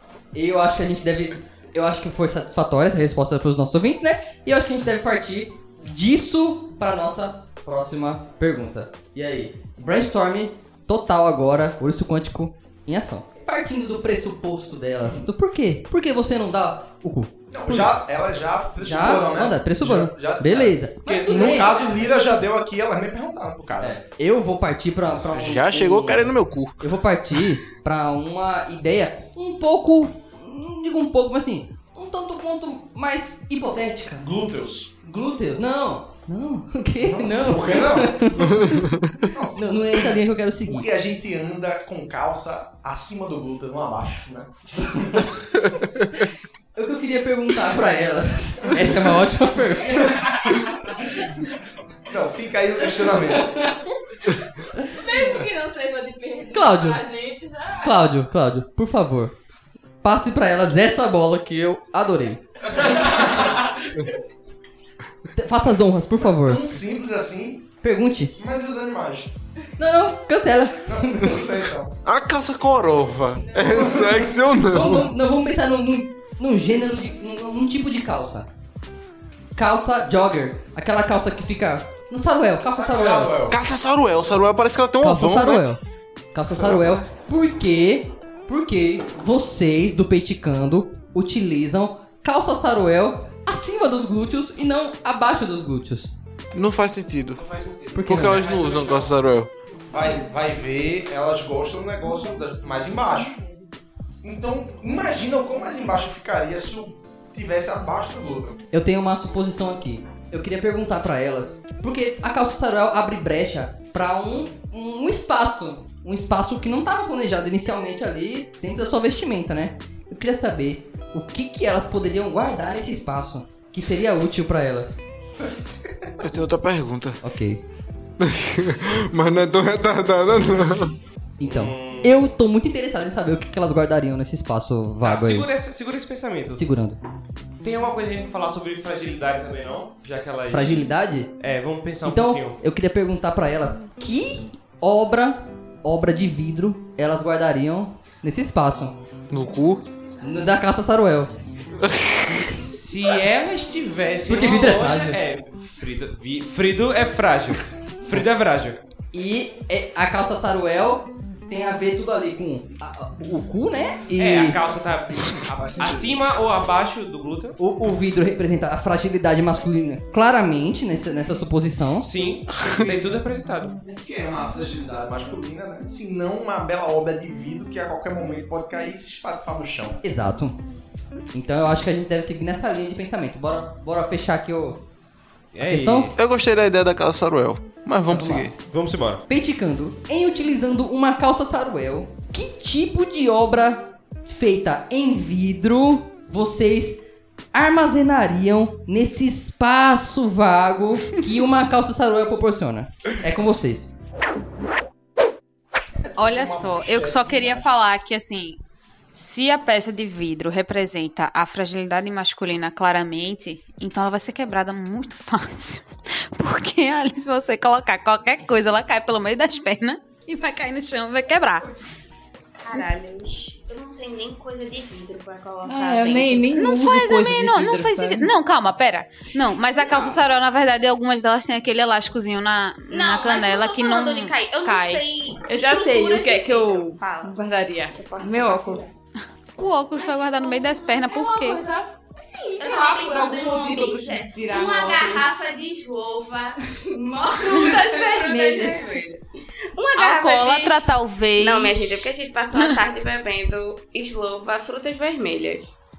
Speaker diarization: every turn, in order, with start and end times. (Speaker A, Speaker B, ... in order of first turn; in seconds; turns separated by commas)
Speaker A: 0.3-18.0, Speaker B: 17.5-24.0, Speaker A: 18.8-21.8, Speaker C: 21.3-21.8, Speaker A: 23.8-34.3, Speaker D: 25.3-26.8, Speaker B: 34.2-34.9, Speaker A: 35.0-38.8, Speaker B: 37.0-38.7, Speaker D: 38.6-39.1, Speaker B: 39.2-40.1, Speaker A: 39.5-40.9, Speaker B: 40.7-45.2, Speaker A: 46.7-50.2, Speaker C: 50.0-50.5, Speaker B: 52.1-53.7, Speaker C: 54.9-58.0, Speaker A: 56.5-57.0, Speaker A: 57.8-59.3, Speaker A: 60.0-63.0, Speaker A: 65.3-66.7, Speaker B: 66.2-67.7, Speaker A: 67.8-68.3, Speaker B: 68.3-69.3, Speaker A: 69.8-71.5, Speaker B: 70.8-71.9, Speaker D: 72.0-75.1, Speaker B: 73.7-74.1, Speaker A: 74.7-78.5, Speaker A: 79.5-83.4, Speaker B: 82.7-83.6, Speaker D: 83.5-85.7, Speaker A: 85.0-85.8, Speaker A: 86.3-96.1, Speaker D: 86.5-87.0, Speaker D: 96.5-97.4, Speaker E: 97.4-99.1, Speaker A: 97.9-98.4, Speaker D: 98.0-99.5, Speaker B: 99.9-103.4, Speaker B: 104.2-108.6, Speaker A: 108.7-125.0, Speaker D: 126.2-127.2, Speaker A: 127.2-127.6, Speaker D: 128.2-130.9, Speaker A: 131.4-135.5, Speaker E: 131.4-132.2, Speaker E: 135.0-136.6, Speaker A: 136.5-137.0, Speaker E: 137.6-140.8, Speaker A: 140.5-141.3, Speaker E: 141.4-142.6, Speaker A: 142.0-148.9, Speaker D: 149.3-149.8, Speaker A: 150.2-151.3, Speaker D: 151.8-152.5, Speaker E: 152.5-158.8, Speaker A: 154.3-155.2, Speaker A: 159.1-164.6, Speaker E: 164.2-167.6, Speaker A: 167.6-172.1, Speaker E: 172.0-173.8, Speaker B: 173.8-180.0, Speaker A: 180.0-180.6, Speaker A: 181.3-184.8, Speaker E: 185.5-186.1, Speaker A: 185.6-186.1, Speaker D: 186.2-188.5, Speaker A: 188.1-188.5, Speaker E: 188.7-189.2, Speaker A: 189.3-197.0, Speaker A: 197.5-203.9, Speaker B: 206.1-207.6, Speaker F: 206.1-208.6, Speaker F: 209.1-221.7, Speaker G: 222.6-226.5, Speaker C: 225.6-228.3, Speaker F: 226.1-235.0, Speaker G: 232.9-237.3, Speaker C: 235.5-238.9, Speaker G: 237.9-238.9, Speaker F: 239.6-241.6, Speaker G: 240.1-240.3, Speaker C: 241.1-245.3, Speaker G: 242.6-255.7, Speaker C: 247.4-249.0, Speaker F: 249.9-252.7